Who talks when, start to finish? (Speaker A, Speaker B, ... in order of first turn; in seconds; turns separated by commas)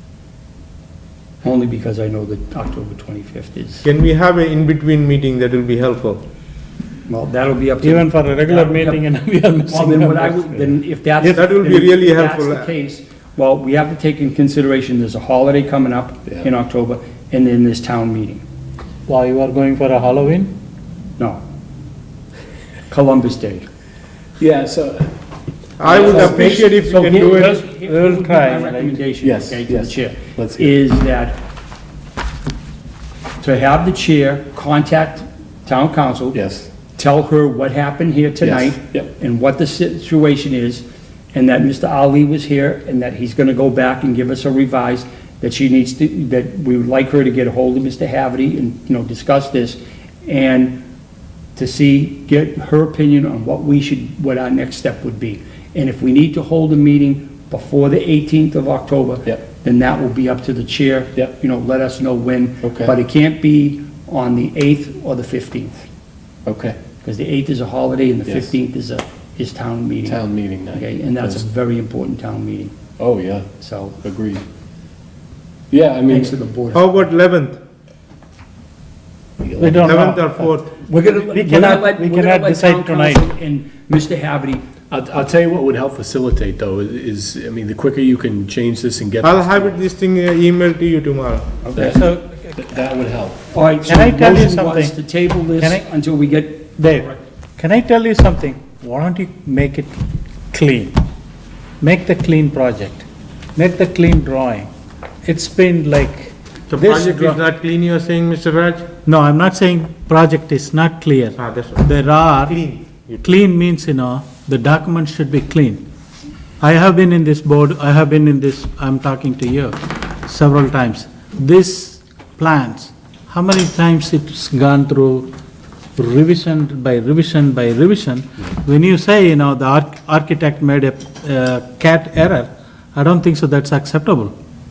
Speaker A: 1.4-3.8, Speaker B: 3.8-6.2, Speaker A: 7.1-9.1, Speaker C: 7.8-10.8, Speaker A: 9.7-18.4, Speaker B: 11.2-12.7, Speaker C: 19.1-20.5, Speaker A: 22.9-23.6, Speaker D: 24.4-25.1, Speaker B: 25.8-27.6, Speaker A: 25.8-31.4, Speaker D: 25.9-27.5, Speaker C: 27.7-29.0, Speaker D: 29.2-30.7, Speaker A: 33.4-36.4, Speaker D: 36.3-36.7, Speaker A: 37.0-50.8, Speaker D: 38.4-39.1, Speaker A: 51.5-65.8, Speaker D: 62.6-62.9, Speaker D: 66.5-66.8, Speaker A: 67.0-72.7, Speaker D: 70.0-71.4, Speaker D: 73.0-73.5, Speaker A: 73.6-74.0, Speaker D: 74.0-74.4, Speaker D: 75.7-76.3, Speaker A: 76.0-77.0, Speaker B: 76.7-77.6, Speaker D: 79.4-79.8, Speaker C: 79.6-83.3, Speaker B: 79.8-80.6, Speaker A: 80.8-84.6, Speaker D: 84.9-89.7, Speaker B: 89.2-91.5, Speaker A: 91.6-92.1, Speaker D: 91.7-92.0, Speaker C: 91.9-92.8, Speaker D: 92.6-93.4, Speaker A: 93.5-96.7, Speaker C: 93.8-95.0, Speaker C: 95.5-95.8, Speaker C: 96.7-101.0, Speaker C: 101.8-104.7, Speaker C: 105.2-107.4, Speaker B: 106.7-108.9, Speaker C: 109.0-112.6, Speaker B: 111.4-111.8, Speaker B: 112.4-113.2, Speaker C: 113.2-115.8, Speaker C: 116.6-125.3, Speaker C: 126.0-134.3